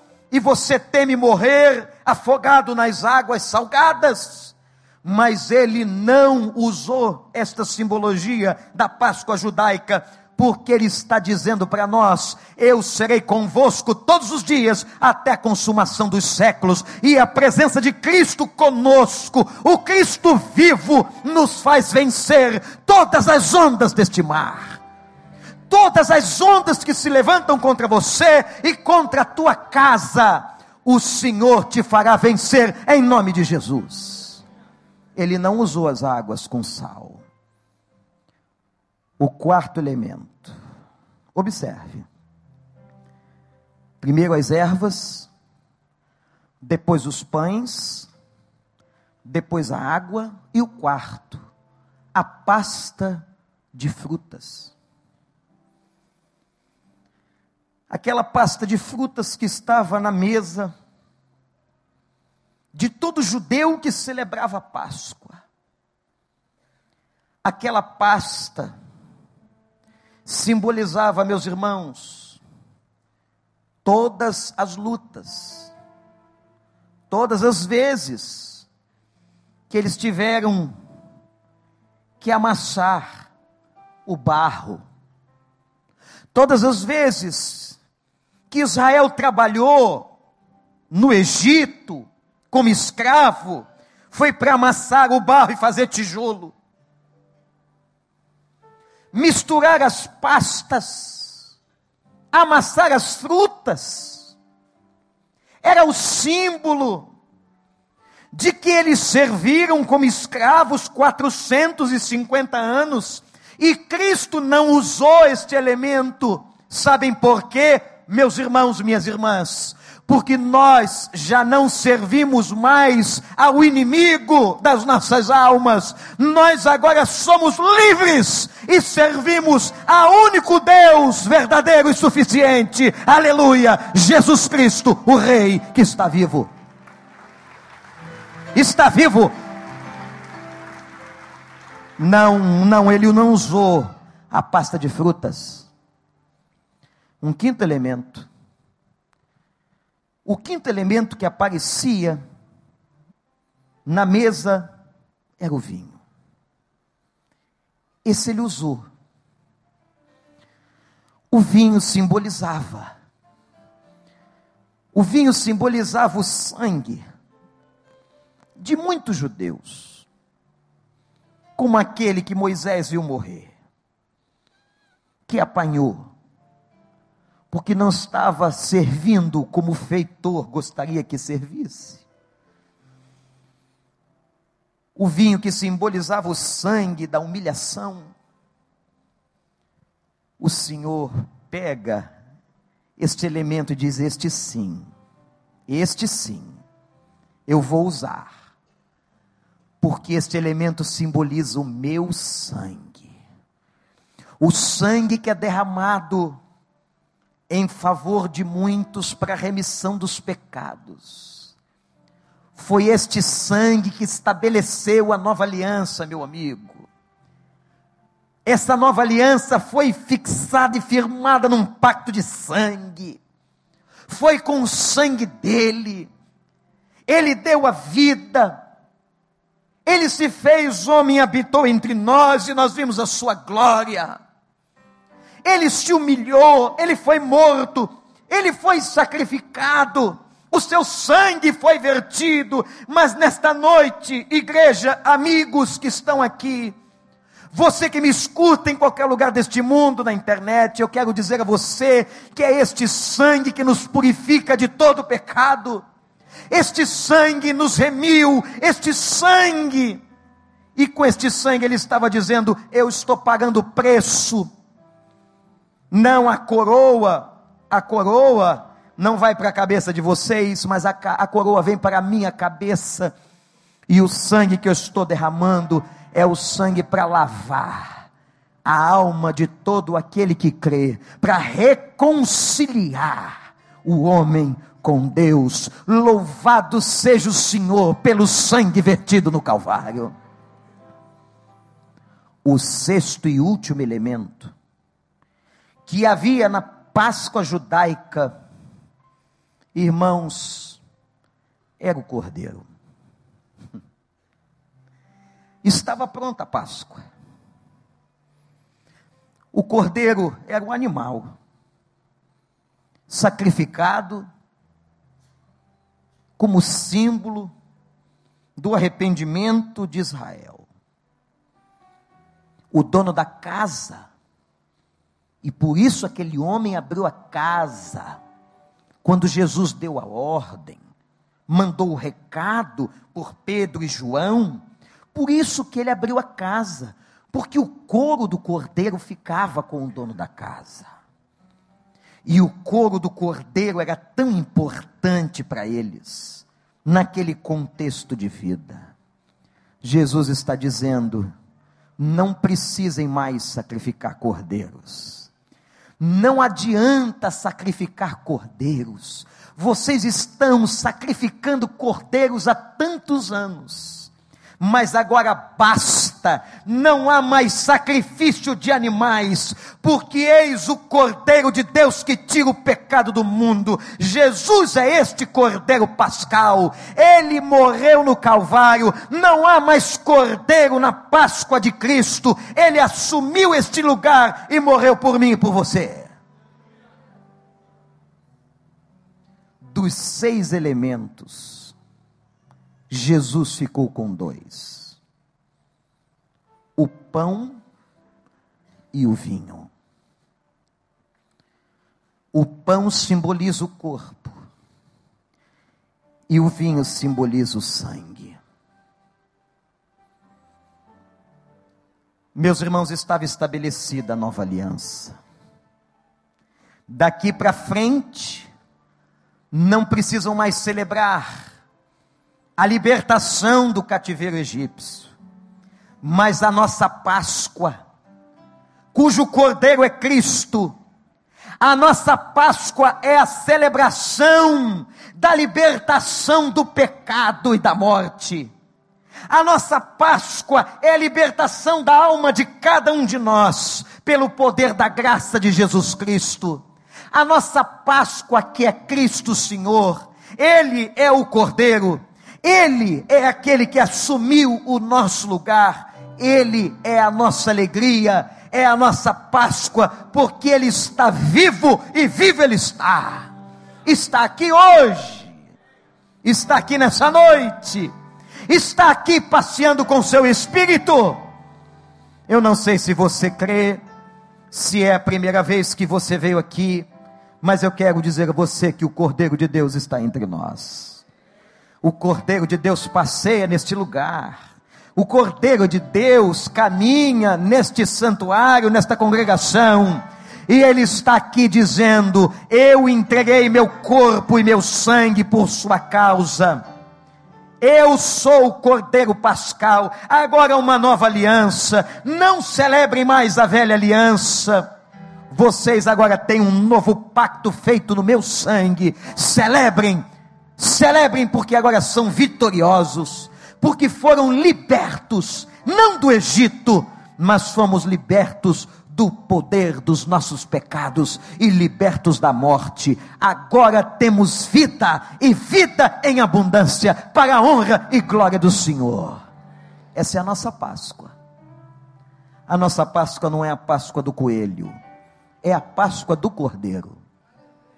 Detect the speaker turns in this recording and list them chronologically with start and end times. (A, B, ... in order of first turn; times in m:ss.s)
0:00.3-0:24.8 A
0:25.7-0:34.4 A
0:35.2-0:37.2 A
0:39.2-0:40.5 A
0:41.3-0:42.1 A
0:44.0-0:45.3 A
0:46.6-0:48.1 A
0:49.2-0:51.4 A
0:52.1-0:54.7 A
0:57.9-1:00.7 A
1:02.7-1:05.4 A
1:07.4-1:08.7 A
1:10.2-1:12.4 A
1:13.8-1:15.7 A
1:17.1-1:18.6 A
1:19.7-1:20.7 A
1:22.2-1:23.3 A
1:24.0-1:24.8 A
1:26.3-1:27.8 A
1:28.5-1:30.1 A
1:30.9-1:36.5 A
1:39.1-1:41.5 A
1:42.3-1:44.3 A
1:45.6-1:47.1 A
1:48.3-2:16.5 A
2:18.5-2:19.3 A
2:22.0-2:25.7 A
2:27.2-2:28.3 A
2:30.2-2:32.2 A
2:33.8-2:34.7 A
2:35.4-2:36.0 A
2:38.0-2:38.8 A
2:41.3-2:42.9 A
2:44.9-2:47.0 A
2:48.6-2:50.1 A
2:51.6-2:53.5 A
2:55.3-2:56.1 A
2:57.5-3:02.0 A
3:05.0-3:08.1 A
3:10.4-3:12.1 A
3:13.0-3:14.9 A
3:15.7-3:16.6 A
3:17.5-3:18.3 A
3:19.8-3:23.1 A
3:24.4-3:26.4 A
3:27.5-3:31.5 A
3:32.6-3:36.9 A
3:38.4-3:43.2 A
3:44.1-3:46.1 A
3:47.1-3:48.6 A
3:49.8-3:54.2 A
3:55.4-4:06.7 A
4:07.5-4:15.8 A
4:16.5-4:20.0 A
4:20.8-4:24.5 A
4:25.9-4:33.1 A
4:33.9-4:38.0 A
4:38.6-4:50.1 A
4:52.4-4:54.5 A
4:55.8-4:58.3 A
4:59.7-5:00.8 A
5:01.8-5:02.6 A
5:05.6-5:07.0 A
5:09.5-5:11.3 A
5:13.1-5:14.2 A
5:16.4-5:17.5 A
5:18.6-5:20.6 A
5:22.7-5:24.1 A
5:25.4-5:28.2 A
5:29.0-5:30.8 A
5:31.5-5:34.6 A
5:35.1-5:40.9 A
5:42.2-5:48.8 A
5:49.8-5:51.3 A
5:52.0-5:55.3 A
5:56.0-6:26.1 A
6:29.6-6:31.7 A
6:32.9-6:35.0 A
6:36.8-6:37.6 A
6:38.9-6:39.7 A
6:42.3-6:44.4 A
6:46.3-6:48.4 A
6:52.3-6:55.2 A
6:56.9-6:58.5 A
6:59.5-7:01.4 A
7:02.6-7:05.1 A
7:06.0-7:07.8 A
7:08.9-7:10.7 A
7:11.6-7:18.5 A
7:19.3-7:43.3 A
7:43.8-7:45.3 A
7:46.2-7:47.9 A
7:48.5-7:51.2 A
7:52.3-7:53.8 A
7:54.5-7:56.9 A
7:57.4-8:01.0 A
8:01.8-8:04.4 A
8:05.0-8:16.6 A
8:17.6-8:24.6 A
8:25.3-8:30.0 A
8:30.6-8:49.2 A
8:49.9-8:51.1 A
8:52.5-8:54.7 A
8:55.4-8:57.0 A